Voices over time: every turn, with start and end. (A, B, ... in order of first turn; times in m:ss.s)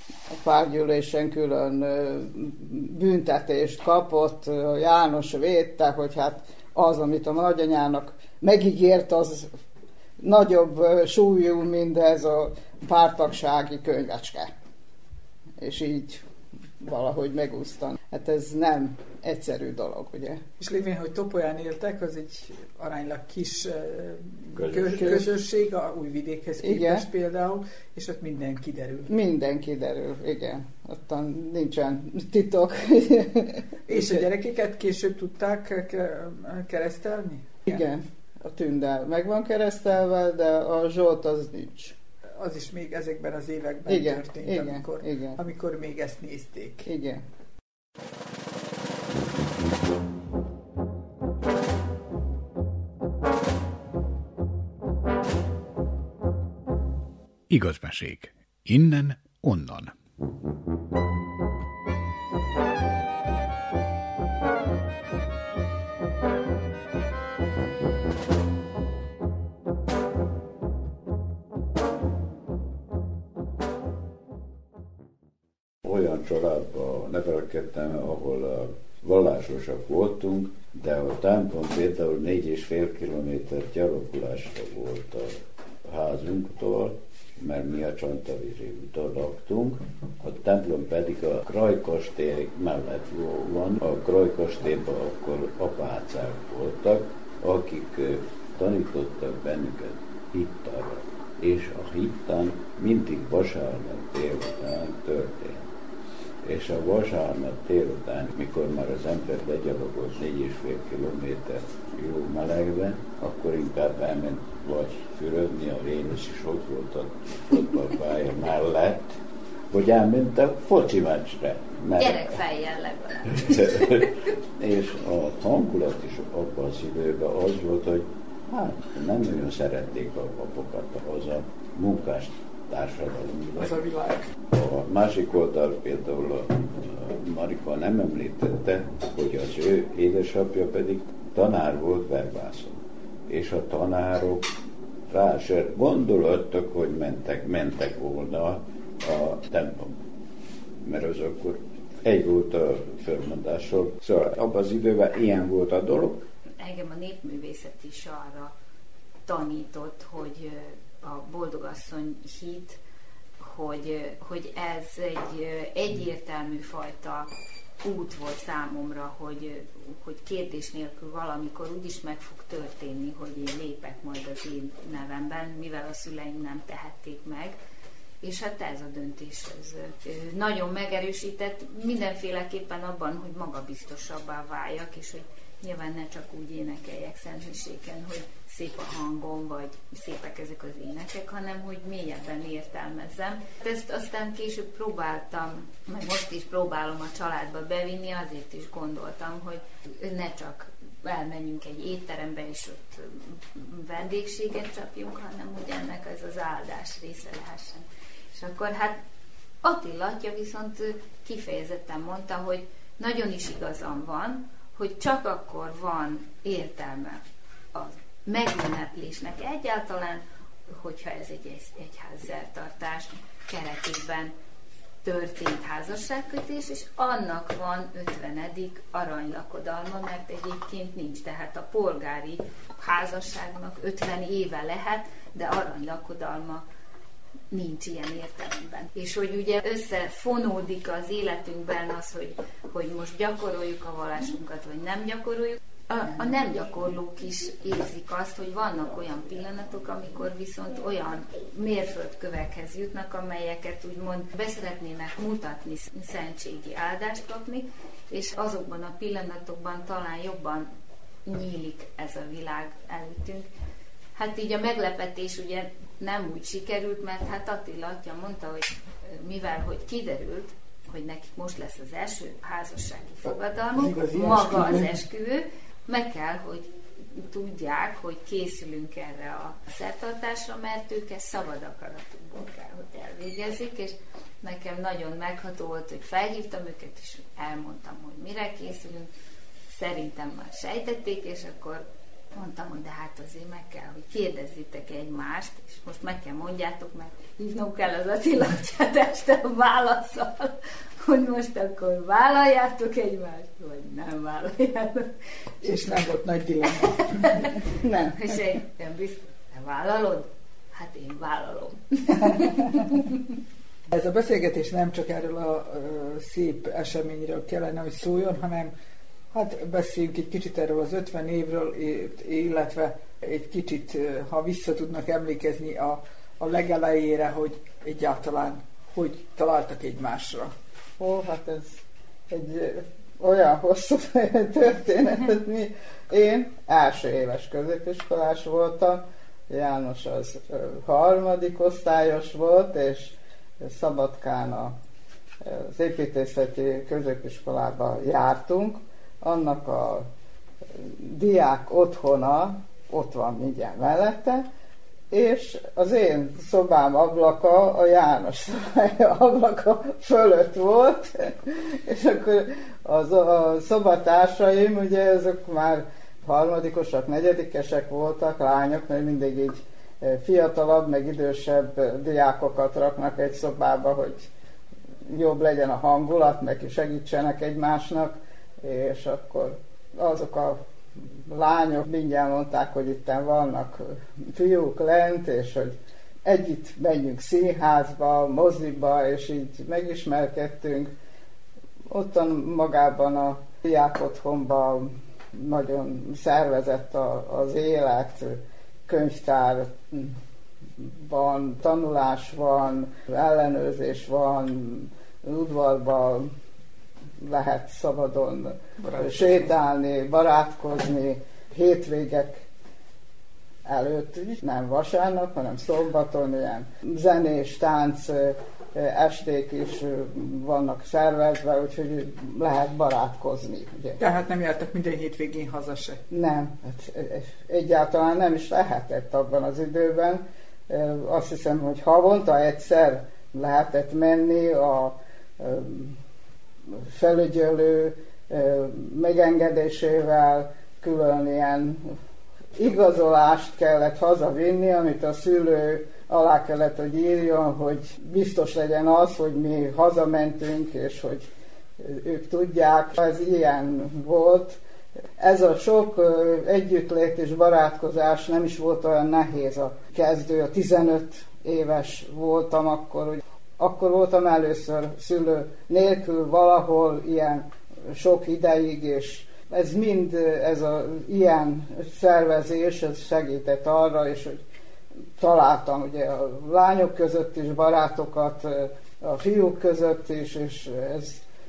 0:00.3-0:09.5 A
0:10.2-0:14.5 A
0:15.6-0:16.2 A
0:16.8-0:20.4 A
0:20.6-0:29.1 B
0:24.5-0:25.2 C
0:26.6-0:27.1 A
0:29.1-0:34.2 A
0:33.9-0:37.9 B
0:37.7-0:41.9 A
0:42.4-0:46.9 B
0:43.9-0:45.4 A
0:46.8-0:47.2 A
0:57.5-0:59.9 D
1:15.8-1:45.7 C
1:46.4-1:59.1 C
1:59.7-2:02.4 C
2:02.0-2:04.0 E
2:03.2-2:13.8 C
2:13.6-2:14.2 B
2:14.5-2:24.5 C
2:25.1-2:30.0 C
2:30.8-2:36.2 C
2:36.6-2:38.5 E
2:39.2-2:42.8 E
2:43.4-2:47.3 E
2:47.8-2:57.6 E
2:58.2-3:29.0 E
3:29.6-3:37.2 E
3:37.7-3:44.3 E
3:45.0-3:56.6 E
3:57.5-4:20.7 E
4:21.2-4:23.5 E
4:24.2-4:49.1 E
4:33.2-4:35.0 B
4:49.7-4:51.8 E
4:52.3-5:05.1 E
5:05.6-5:07.3 B
5:07.3-5:07.5 E
5:07.8-5:08.2 A
5:08.1-5:12.7 E
5:13.9-5:18.7 B
5:19.3-5:30.5 B
5:31.0-5:44.7 A
5:45.4-5:50.0 A
5:50.8-5:54.4 A
5:55.1-6:14.3 A
6:15.1-6:20.6 A
6:21.3-6:23.8 A
6:24.3-6:30.9 A
6:31.9-6:40.1 A
6:41.0-6:46.3 A
6:47.2-6:52.4 A
6:48.8-6:49.5 B
6:53.7-7:04.0 A
7:04.0-7:06.0 B
7:06.1-7:16.0 A
7:16.9-7:21.8 A
7:22.6-7:31.2 A
7:31.8-7:34.6 A
7:35.2-7:54.4 A
7:55.2-8:01.2 A